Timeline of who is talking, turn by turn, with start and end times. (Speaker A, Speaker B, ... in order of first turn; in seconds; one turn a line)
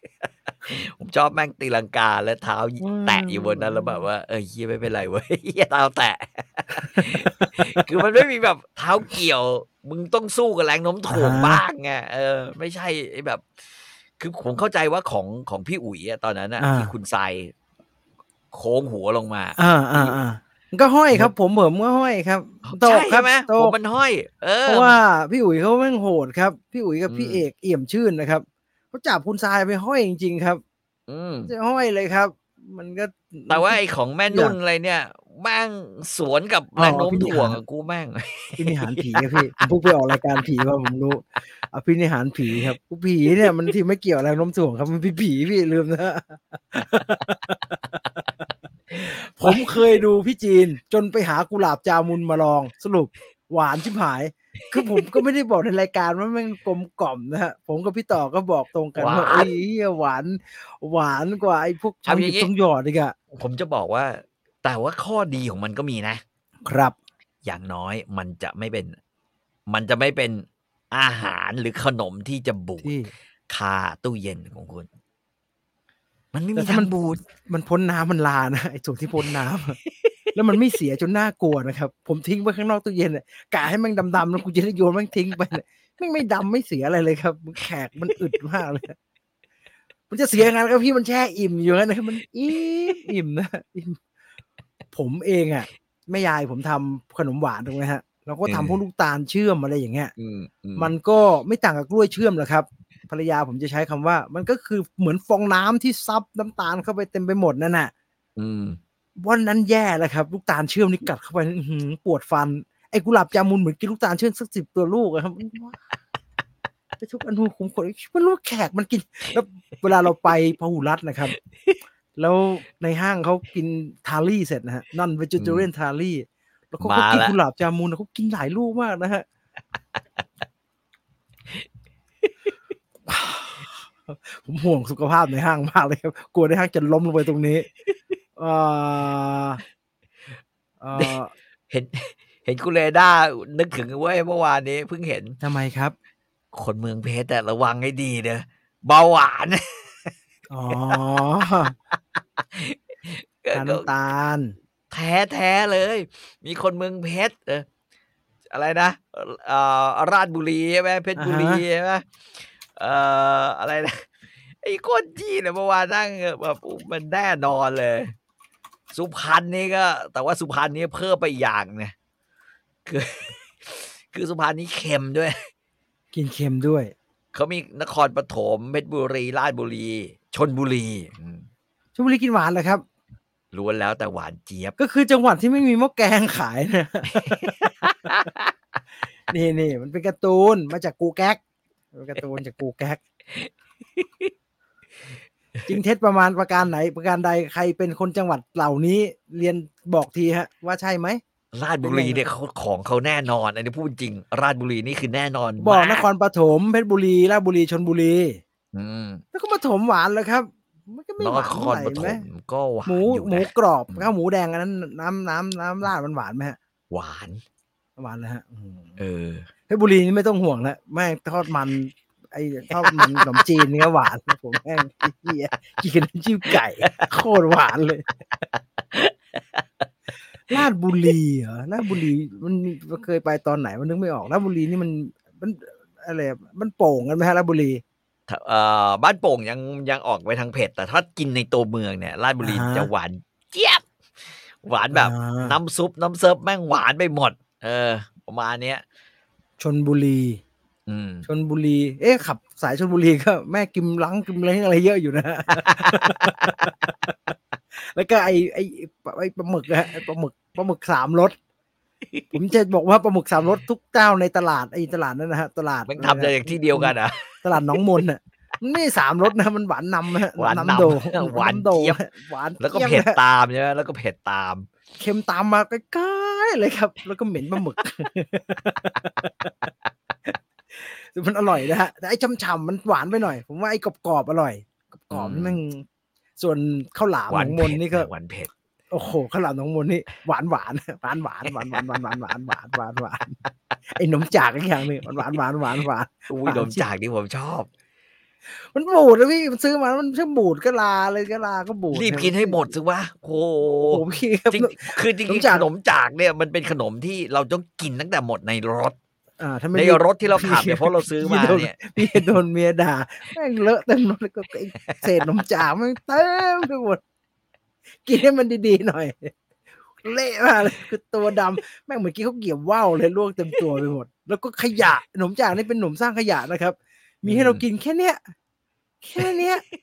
Speaker A: 0.6-13.5
Speaker B: 2.8-4.1
Speaker B: 6.8-7.9
Speaker B: 11.1-11.6
Speaker A: 14.2-17.5
Speaker B: 16.6-16.9
Speaker A: 18.5-20.1
Speaker B: 19.6-23.7
Speaker A: 22.6-24.9
Speaker B: 24.6-30.6
Speaker A: 27.1-27.4
Speaker A: 31.1-31.5
Speaker B: 31.4-33.8
Speaker A: 33.5-39.6
Speaker B: 34.3-34.5
Speaker B: 36.8-37.6
Speaker B: 38.6-48.2
Speaker B: 48.9-63.1
Speaker A: 49.4-49.8
Speaker A: 54.8-55.0
Speaker A: 59.0-59.5
Speaker A: 62.0-62.5
Speaker A: 63.3-66.2
Speaker B: 66.7-67.0
Speaker A: 67.4-69.0
Speaker A: 69.7-72.9
Speaker B: 72.8-73.1
Speaker A: 73.5-74.9
Speaker A: 76.3-77.2
Speaker B: 76.5-79.8
Speaker B: 80.3-89.0
Speaker B: 90.1-94.0
Speaker B: 94.9-100.1
Speaker A: 98.5-98.8
Speaker A: 100.2-100.9
Speaker B: 100.8-107.9
Speaker A: 108.4-108.8
Speaker B: 109.2-115.8
Speaker B: 117.0-121.4
Speaker B: 122.2-129.2
Speaker A: 125.4-125.7
Speaker A: 126.8-127.3
Speaker B: 133.1-137.7
Speaker B: 138.4-139.6
Speaker B: 140.8-141.3
Speaker A: 141.7-145.4
Speaker B: 145.4-145.9
Speaker A: 146.5-150.1
Speaker B: 150.5-151.7
Speaker A: 150.7-153.9
Speaker B: 153.5-154.5
Speaker A: 154.9-157.7
Speaker A: 158.5-164.1
Speaker B: 161.2-161.6
Speaker A: 164.6-168.1
Speaker A: 168.9-171.9
Speaker A: 172.8-175.5
Speaker B: 176.1-176.9
Speaker A: 177.3-181.5
Speaker B: 181.9-182.8
Speaker A: 183.5-184.8
Speaker B: 184.8-188.3
Speaker A: 187.1-188.5
Speaker B: 189.3-191.4
Speaker B: 191.9-193.0
Speaker A: 193.3-194.3
Speaker B: 195.7-201.2
Speaker A: 201.5-206.1
Speaker B: 201.8-202.2
Speaker B: 205.6-208.4
Speaker A: 208.7-209.2
Speaker B: 209.3-212.2
Speaker A: 211.2-214.1
Speaker B: 212.8-216.6
Speaker A: 216.9-217.4
Speaker B: 218.0-219.0
Speaker A: 219.0-219.5
Speaker B: 219.7-228.1
Speaker A: 222.8-223.4
Speaker A: 226.5-226.9
Speaker A: 228.9-229.6
Speaker B: 230.5-237.8
Speaker A: 238.3-243.9
Speaker B: 242.4-242.9
Speaker A: 244.6-248.8
Speaker B: 244.9-245.6
Speaker B: 249.6-250.4
Speaker A: 250.9-251.2
Speaker B: 251.2-261.4
Speaker A: 255.6-256.5
Speaker B: 262.3-273.2
Speaker A: 265.9-267.8
Speaker A: 270.3-272.0
Speaker A: 272.6-274.7
Speaker B: 275.0-279.5
Speaker B: 280.3-285.8
Speaker A: 285.1-285.6
Speaker B: 286.4-288.1
Speaker A: 287.3-288.5
Speaker B: 288.9-293.4
Speaker B: 293.9-296.8
Speaker A: 296.3-297.7
Speaker B: 298.7-302.7
Speaker A: 301.9-308.9
Speaker B: 303.7-305.7
Speaker B: 309.4-317.0
Speaker A: 309.7-312.3
Speaker B: 318.0-319.3
Speaker B: 320.0-328.2
Speaker A: 327.2-327.6
Speaker B: 329.0-329.6
Speaker A: 329.2-329.5